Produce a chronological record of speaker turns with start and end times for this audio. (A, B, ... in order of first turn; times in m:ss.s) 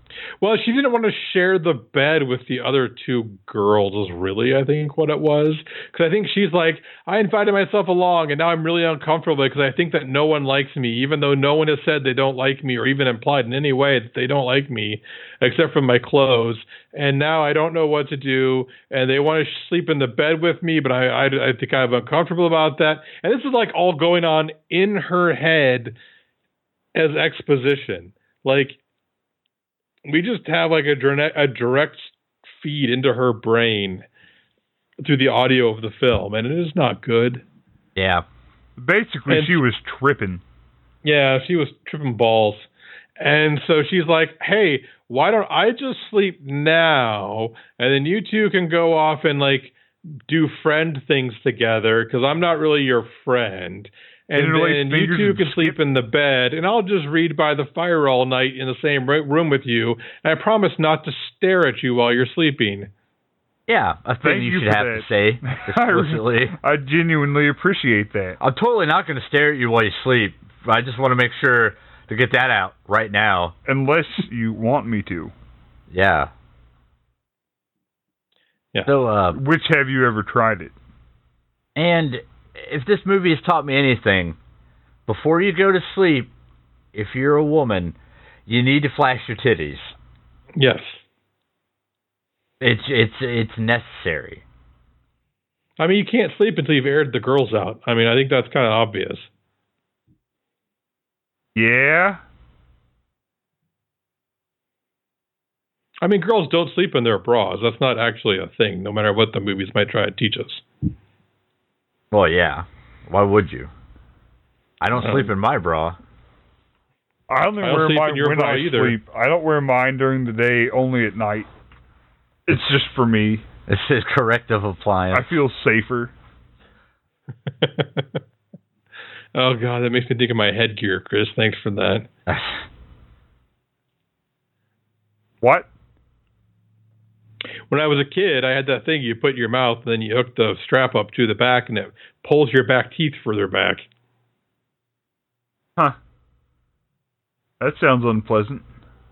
0:00.4-0:26.0 A
0:27.0-0:28.8 A
0:30.1-0:34.0 A
0:35.0-0:37.4 A
0:38.0-0:38.2 B
0:38.8-0:40.4 C
0:39.3-0:39.6 A
0:41.0-0:42.7 A
0:43.2-1:02.9 A
0:54.4-0:55.8 C
1:03.7-1:06.6 B
1:04.2-1:08.4 C
1:08.4-1:13.6 B
1:13.7-1:15.3 C
1:15.9-1:16.3 B
1:18.9-1:19.4 B
1:19.3-1:20.7 C
1:21.8-1:24.4 B
1:25.1-1:26.3 B
1:26.9-1:28.0 B
1:28.5-1:29.9 B
1:30.6-1:31.0 A
1:32.6-1:34.4 B
1:35.8-1:39.3 A
1:41.6-1:42.2 C
1:46.0-1:50.6 A
1:52.1-1:53.7 B
1:54.8-1:56.0 B
1:55.0-1:55.3 A
1:57.3-2:01.5 C
1:57.6-1:59.0 A
2:02.5-2:03.4 C
2:03.7-2:05.3 B
2:05.1-2:06.1 C
2:07.6-2:08.2 A
2:09.4-2:12.1 A
2:12.3-2:12.7 B
2:15.4-2:15.7 C
2:17.7-2:23.9 A
2:27.6-2:28.6 C